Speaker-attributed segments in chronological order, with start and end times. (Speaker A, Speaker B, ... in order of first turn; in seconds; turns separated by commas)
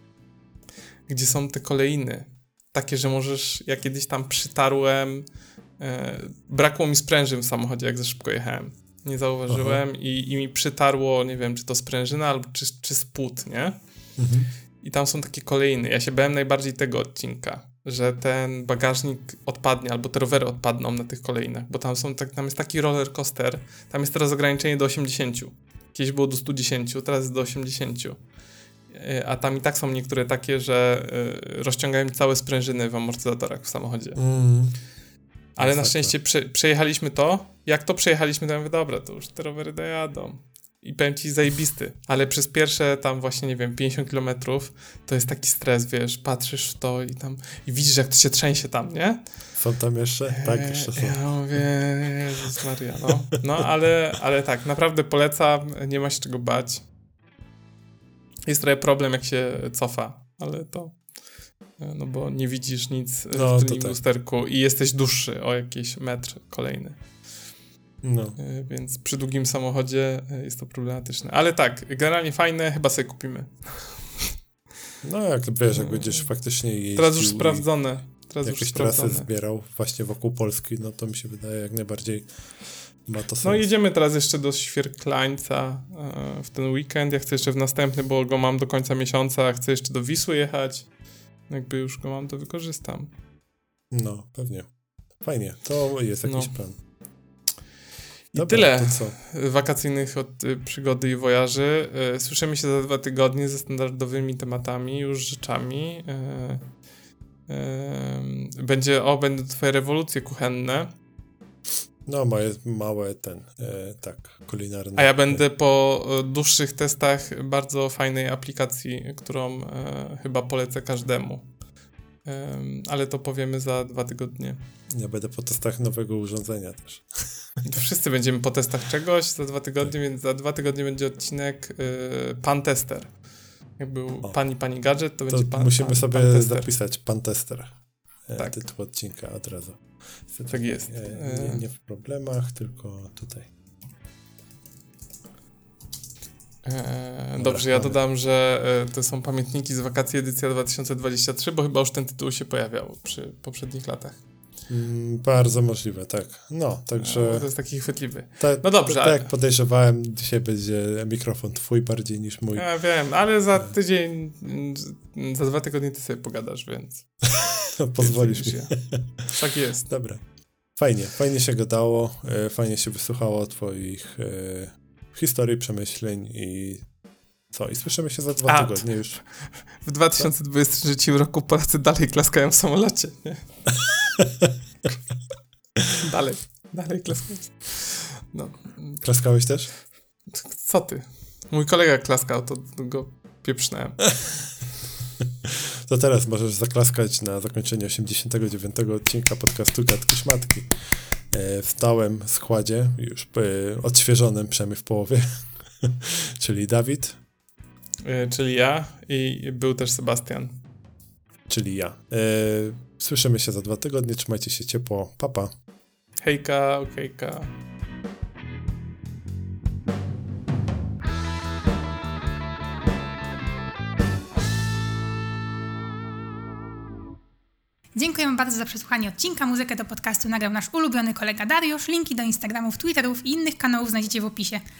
Speaker A: 1.1-5.2, Speaker A: 5.8-13.8, Speaker B: 9.5-9.8, Speaker B: 14.2-14.5, Speaker A: 14.8-28.2, Speaker A: 28.9-34.2, Speaker B: 34.1-34.7, Speaker A: 35.6-49.2, Speaker B: 35.6-36.1, Speaker B: 49.5-51.2, Speaker A: 50.3-56.8, Speaker A: 58.5-61.0, Speaker A: 61.8-67.0, Speaker B: 63.3-64.0, Speaker B: 68.0-68.4, Speaker A: 68.4-74.0, Speaker B: 75.0-77.7, Speaker A: 75.7-76.2, Speaker A: 77.0-79.3, Speaker B: 78.4-82.3, Speaker B: 83.0-83.7, Speaker A: 83.4-90.9, Speaker A: 91.5-93.1, Speaker B: 93.9-94.7, Speaker B: 95.2-96.8, Speaker A: 96.2-96.5, Speaker B: 98.3-99.2, Speaker A: 98.3-106.6, Speaker A: 107.5-110.9, Speaker B: 112.0-115.4, Speaker A: 115.0-121.5, Speaker A: 122.2-124.6, Speaker B: 124.9-127.2, Speaker A: 127.6-133.1, Speaker A: 133.8-136.7, Speaker B: 135.3-137.7, Speaker B: 138.3-143.5, Speaker A: 140.5-141.6, Speaker A: 146.6-154.2, Speaker B: 147.4-148.0, Speaker B: 154.7-157.5, Speaker A: 157.0-159.3, Speaker B: 158.4-162.7, Speaker A: 162.5-167.1, Speaker B: 167.4-169.3, Speaker A: 168.0-169.9, Speaker B: 169.8-170.2, Speaker B: 170.8-176.8, Speaker B: 177.5-179.2, Speaker A: 178.4-183.4, Speaker A: 185.9-189.0, Speaker B: 189.0-189.7, Speaker A: 190.3-194.1, Speaker B: 195.4-207.2, Speaker A: 208.0-210.6, Speaker B: 211.5-215.5, Speaker A: 216.2-217.5, Speaker C: 227.9-234.6